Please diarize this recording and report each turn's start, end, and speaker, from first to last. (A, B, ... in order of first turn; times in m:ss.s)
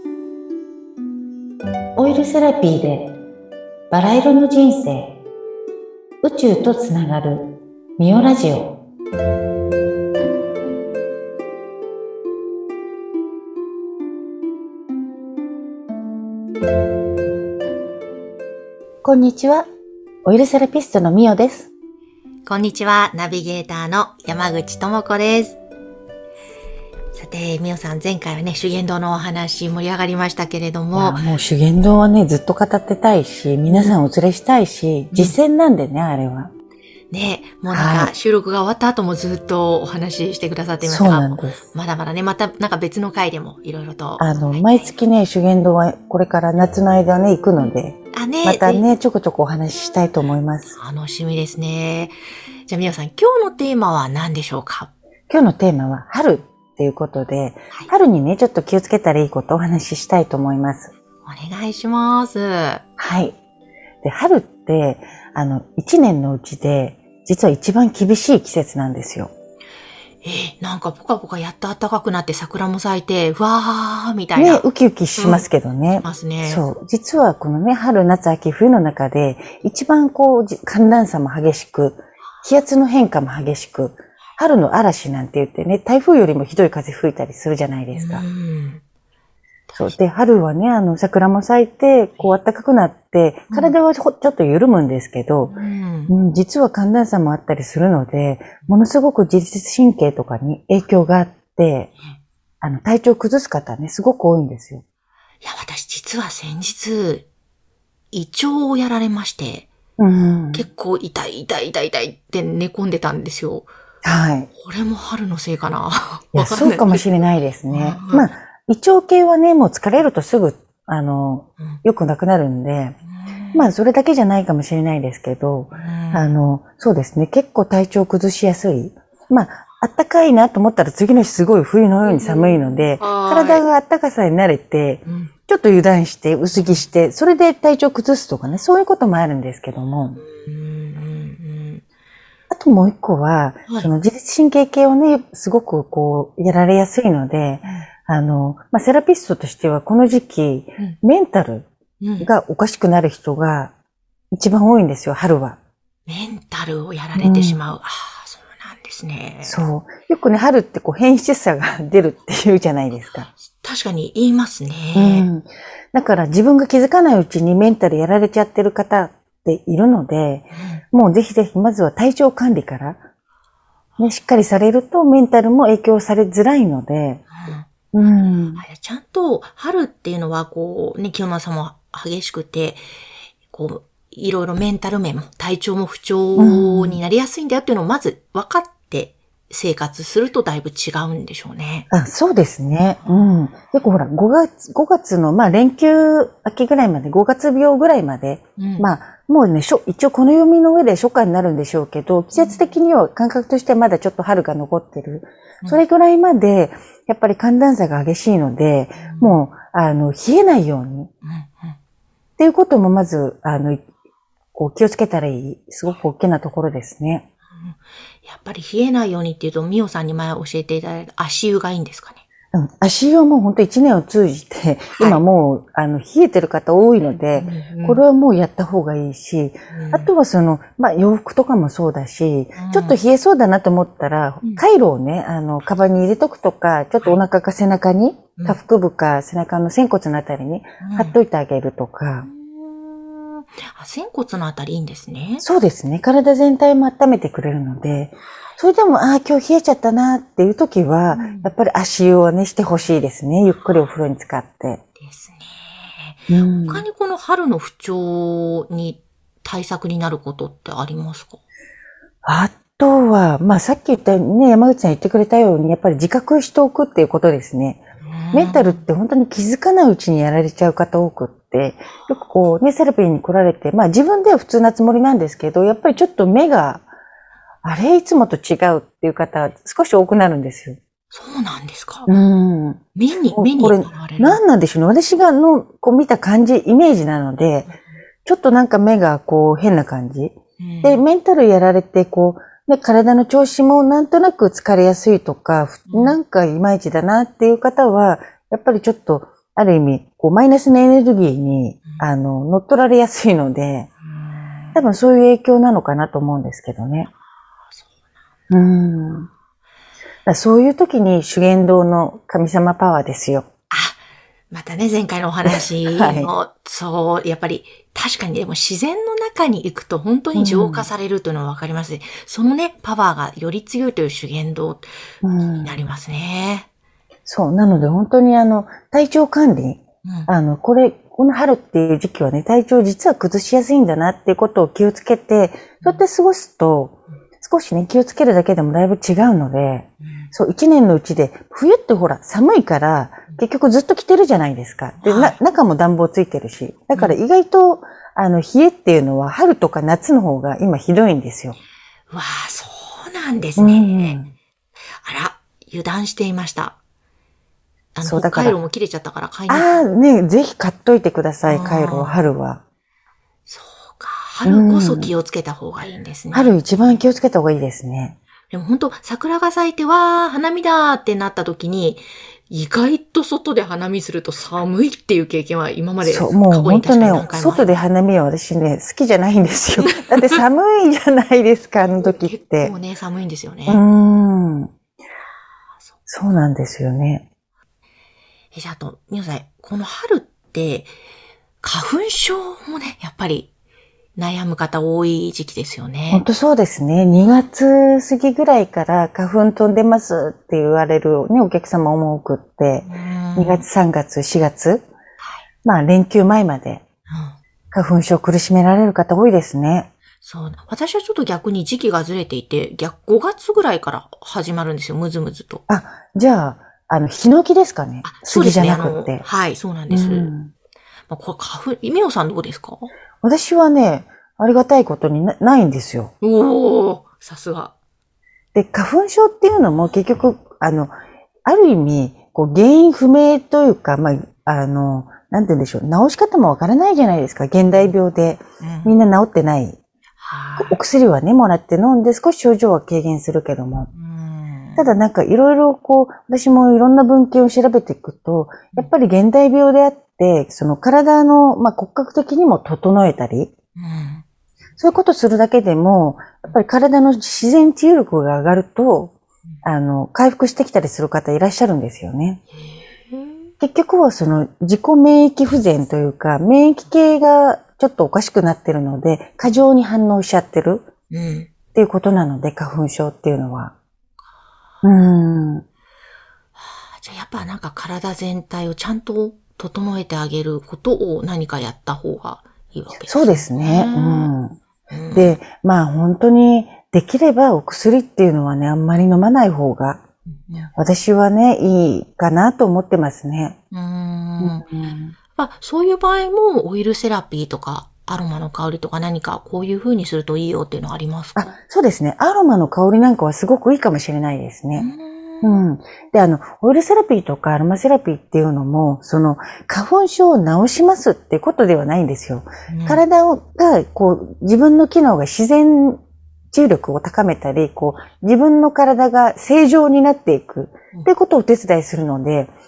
0:02.0-0:03.2 A
0:03.9-0:05.2 A
0:06.2-0:08.8 A
0:19.0-0:19.7 A
0:20.2-0:21.7 A
0:22.5-0:25.6 B
0:27.2-0:31.2 B
0:30.9-0:36.5 A
0:33.7-0:34.0 B
0:37.1-0:45.0 B
0:37.7-0:38.1 A
0:40.8-0:41.6 A
0:44.2-0:50.8 A
0:48.1-0:48.8 B
0:50.7-0:52.2 B
0:52.7-0:54.9 B
0:55.3-1:00.9 A
1:01.3-1:02.8 B
1:03.0-1:03.4 A
1:04.0-1:09.3 A
1:10.2-1:14.7 B
1:14.4-1:28.2 A
1:15.2-1:16.6 B
1:27.9-1:28.8 B
1:29.7-1:30.0 B
1:29.8-1:35.5 A
1:33.5-1:33.8 B
1:35.5-1:36.1 B
1:36.1-1:41.9 A
1:42.6-1:44.8 A
1:45.4-1:47.3 B
1:48.1-1:49.7 B
1:50.0-1:50.7 A
1:50.5-1:53.7 B
1:54.0-1:54.5 A
1:54.6-1:57.1 B
1:56.4-2:03.0 A
1:57.7-1:58.3 B
2:03.0-2:03.7 B
2:03.5-2:20.2 A
2:05.7-2:06.4 B
2:12.0-2:13.7 B
2:15.1-2:15.3 B
2:16.5-2:16.8 B
2:20.2-2:21.8 B
2:22.5-2:31.7 A
2:32.0-2:32.3 B
2:32.2-2:33.7 A
2:34.3-2:35.6 A
2:36.1-2:39.6 B
2:37.2-2:37.6 A
2:39.4-2:43.3 A
2:43.3-2:45.3 B
2:45.0-2:53.0 A
2:50.5-2:50.8 B
2:54.0-2:57.2 A
2:57.3-2:57.7 B
2:57.9-2:58.6 A
2:58.6-3:02.8 B
3:03.5-3:11.9 B
3:06.4-3:07.0 A
3:11.9-3:31.1 A
3:13.0-3:13.4 B
3:18.6-3:18.9 B
3:22.4-3:22.7 B
3:29.0-3:29.4 B
3:31.2-3:31.8 B
3:32.4-3:33.8 A
3:34.6-3:37.3 A
3:37.6-3:42.2 B
3:42.5-4:02.3 A
3:45.0-3:45.2 B
3:47.3-3:48.0 B
3:49.7-3:50.1 B
3:52.6-3:53.0 B
4:00.8-4:01.2 B
4:02.2-4:05.4 B
4:05.4-4:14.8 A
4:11.1-4:11.5 B
4:13.5-4:13.9 B
4:15.0-4:21.4 B
4:16.3-4:16.9 A
4:22.2-4:36.9 A
4:28.0-4:28.8 B
4:37.6-4:40.8 A
4:41.1-4:42.1 B
4:42.1-4:42.8 A
4:43.0-4:44.4 B
4:43.3-4:47.7 A
4:48.2-5:03.9 A
4:50.6-4:51.0 B
4:55.9-4:56.2 B
5:04.0-5:04.8 B
5:04.8-5:07.1 A
5:08.5-5:09.3 A
5:10.3-5:13.5 A
5:13.7-5:14.0 B
5:14.5-5:26.7 B
5:15.4-5:16.3 A
5:20.4-5:20.9 A
5:25.2-5:25.7 A
5:27.3-5:51.6 A
5:30.0-5:30.3 B
5:40.0-5:40.3 B
5:45.0-5:45.4 B
5:46.9-5:47.2 B
5:52.1-5:54.2 B
5:53.6-5:54.3 A
5:55.0-5:56.8 B
5:58.0-5:59.8 B
5:58.0-5:58.6 A
5:59.5-6:02.6 A
6:01.5-6:02.2 B
6:03.5-6:06.6 B
6:04.4-6:05.1 A
6:06.3-6:08.2 A
6:08.5-6:17.8 B
6:16.0-6:22.7 A
6:19.9-6:20.4 B
6:22.2-6:23.8 B
6:23.7-6:24.7 A
6:26.1-6:27.3 A
6:28.5-6:30.9 B
6:31.6-6:33.5 B
6:34.2-6:36.2 B
6:36.1-6:44.9 A
6:42.8-6:43.6 B
6:45.6-6:46.8 A
6:47.1-6:47.4 B
6:47.7-6:49.9 A
6:50.2-6:55.6 B
6:55.7-6:59.3 A
6:58.0-7:00.3 B
6:59.9-7:00.5 A
7:01.1-7:02.9 B
7:03.2-7:06.1 A
7:06.2-7:07.7 B
7:08.5-7:10.9 A
7:11.4-7:19.8 A
7:18.6-7:19.0 B
7:20.2-7:20.8 B
7:20.6-7:23.9 A
7:23.9-7:25.0 B
7:24.8-7:33.5 A
7:33.8-7:34.2 B
7:34.8-7:42.4 A
7:42.7-7:43.5 B
7:43.6-7:50.9 A
7:51.1-7:51.5 B
7:51.7-7:53.7 A
7:54.8-7:55.6 A
7:56.6-8:04.3 B
8:03.1-8:04.6 A
8:04.9-8:05.4 B
8:05.1-8:10.0 A
8:10.8-8:13.6 A
8:13.7-8:14.7 B
8:14.4-8:15.1 A
8:15.4-8:21.5 B
8:21.4-8:24.9 A
8:24.8-8:25.6 B
8:25.4-8:36.0 A
8:32.7-8:33.0 B
8:36.5-8:42.5 A